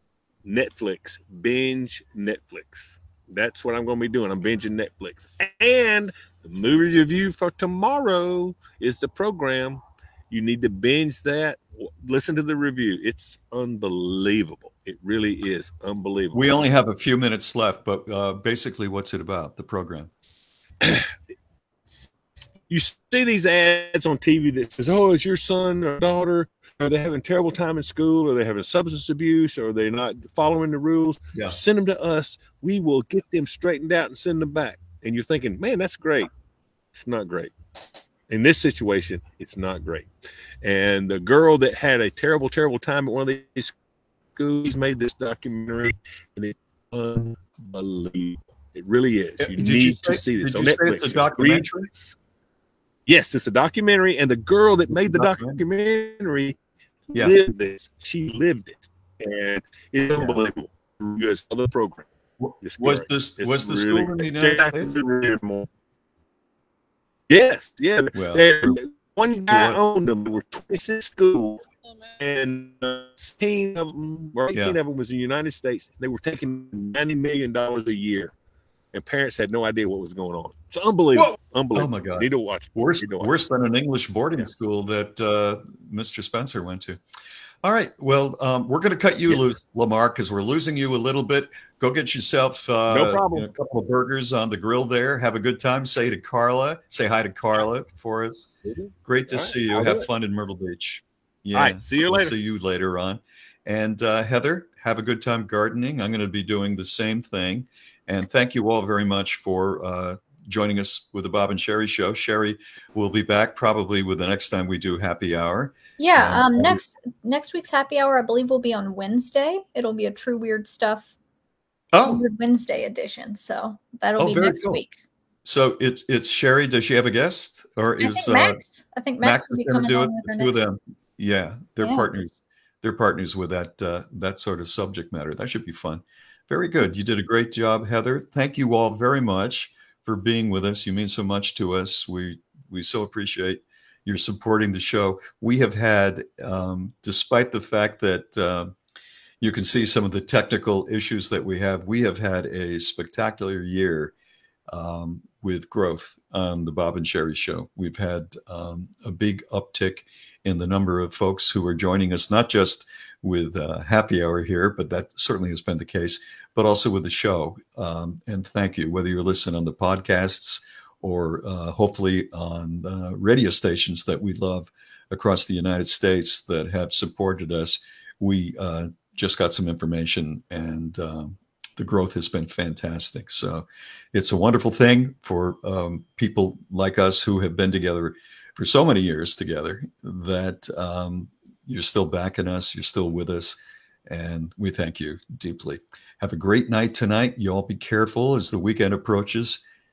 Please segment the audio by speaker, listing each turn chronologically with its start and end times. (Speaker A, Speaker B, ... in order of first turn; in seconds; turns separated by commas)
Speaker A: 0.5-16.7, Speaker B: 16.3-20.1, Speaker A: 20.8-21.1, Speaker A: 22.7-36.3, Speaker B: 31.3-31.6, Speaker A: 36.9-37.5, Speaker A: 38.3-40.1, Speaker A: 40.6-43.8, Speaker A: 44.4-51.7, Speaker B: 49.4-51.9, Speaker A: 53.1-56.6, Speaker B: 54.9-55.6, Speaker A: 57.1-62.1, Speaker B: 60.2-60.4, Speaker B: 62.4-65.0, Speaker A: 62.6-65.7, Speaker A: 67.3-71.6, Speaker B: 68.1-68.8, Speaker B: 69.5-69.8, Speaker A: 72.2-78.3, Speaker B: 74.5-74.8, Speaker A: 78.9-83.3, Speaker B: 81.2-87.0, Speaker B: 87.6-98.5, Speaker A: 92.9-93.5, Speaker A: 98.7-100.1, Speaker B: 99.0-116.8, Speaker A: 101.5-102.4, Speaker C: 116.0-121.2, Speaker B: 121.9-122.2, Speaker C: 122.0-125.0, Speaker B: 124.2-124.8, Speaker B: 125.5-128.6, Speaker C: 128.0-130.6, Speaker B: 129.2-148.7, Speaker C: 131.8-132.1, Speaker B: 149.4-154.1, Speaker B: 154.7-199.6